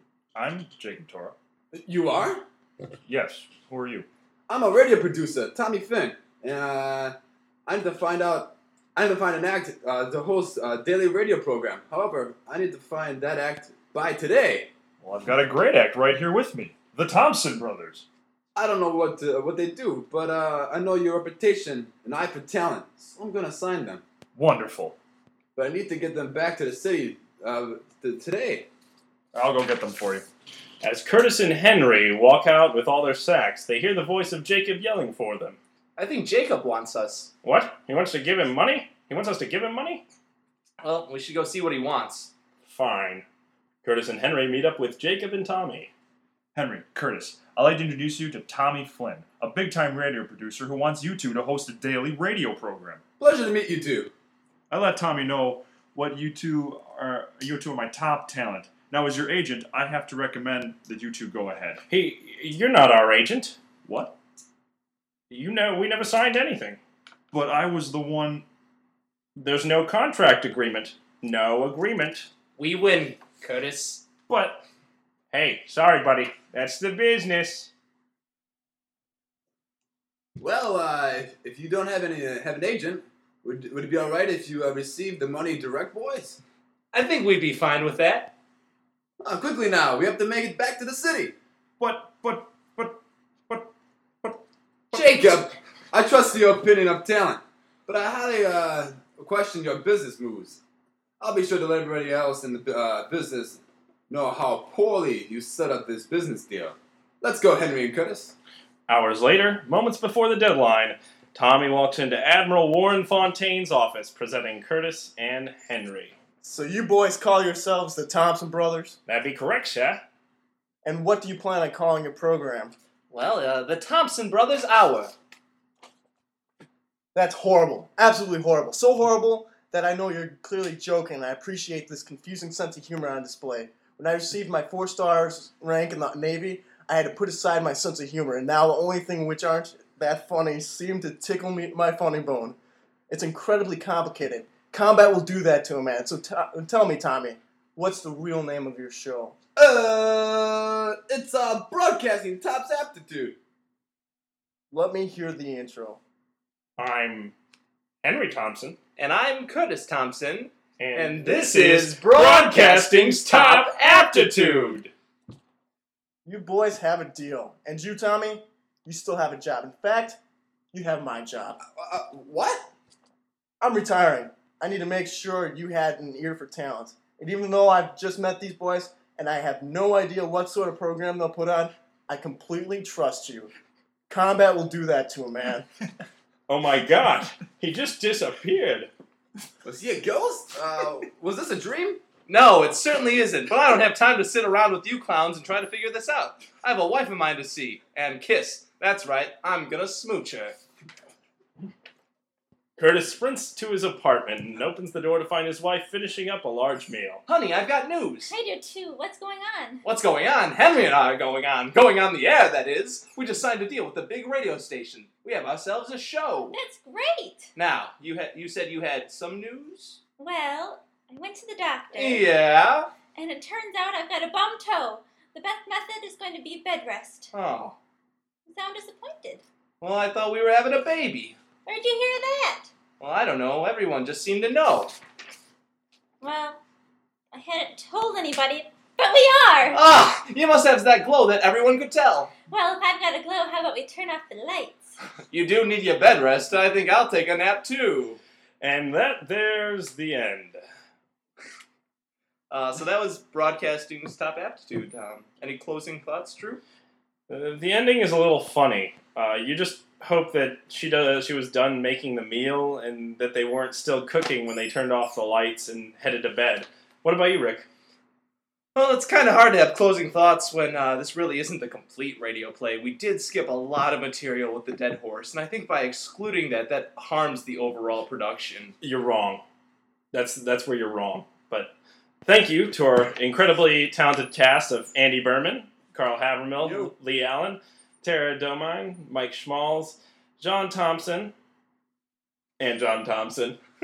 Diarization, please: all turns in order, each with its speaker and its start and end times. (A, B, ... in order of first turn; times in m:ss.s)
0:00.3-0:01.3 A
0:01.8-0:02.4 B
0:03.1-0:04.1 A
0:04.5-0:07.1 B
0:07.6-0:14.7 B
0:15.0-0:18.0 A
0:18.5-0:24.0 B
0:24.3-0:25.0 A
0:25.5-0:28.7 B
0:29.3-0:30.2 A
0:30.8-0:35.6 C
0:36.0-0:37.3 D
0:37.4-0:40.0 C
0:40.8-0:42.3 D
0:42.7-0:43.2 C
0:43.8-0:45.9 C
0:46.5-0:53.0 A
0:53.2-0:54.1 B
0:54.7-1:01.8 A
1:01.9-1:03.6 C
1:03.8-1:04.1 A
1:05.3-1:06.8 C
1:07.3-1:08.4 A
1:09.4-1:12.3 C
1:12.6-1:14.0 D
1:14.3-1:14.6 A
1:15.3-1:17.7 C
1:20.4-1:26.4 B
1:26.9-1:28.3 D
1:29.2-1:31.3 B
1:31.8-1:33.7 A
1:34.9-1:35.4 D
1:34.9-1:40.6 B
1:41.2-1:48.3 B
1:48.9-1:56.2 C
1:56.4-1:59.0 E
1:59.1-2:00.0 C
2:00.8-2:02.7 E
2:03.1-2:05.1 D
2:07.1-2:22.6 E
2:23.1-2:29.4 E
2:29.6-2:33.4 B
2:34.7-2:36.0 E
2:36.8-2:37.3 C
2:38.0-2:38.8 C
2:39.0-2:44.8 D
2:40.8-2:44.9 C
2:46.2-2:50.2 E
2:50.7-2:51.6 E
2:51.7-2:52.7 B
2:53.6-3:03.5 E
3:04.1-3:05.6 E
3:06.5-3:08.9 C
3:09.6-3:12.0 B
3:12.3-3:20.6 D
3:22.8-3:27.2 C
3:27.3-3:28.3 D
3:28.3-3:29.8 F
3:29.8-3:36.6 D
3:36.5-3:37.5 F
3:37.5-3:40.0 D
3:40.2-3:42.2 F
3:41.9-3:42.9 D
3:43.1-3:47.3 F
3:47.3-3:47.7 D
3:48.5-3:49.4 F
3:49.8-3:51.4 D
3:51.6-3:52.7 F
3:53.0-3:54.9 D
3:56.2-3:56.6 F
3:57.3-3:59.8 F
3:59.7-4:02.3 D
4:02.5-4:04.9 F
4:05.3-4:08.2 D
4:08.6-4:10.6 C
4:12.5-4:16.6 D
4:17.3-4:27.7 C
4:28.7-4:38.7 D
4:38.8-4:39.4 C
4:40.1-4:41.7 C
4:42.2-4:51.3 C
4:52.6-4:53.6 C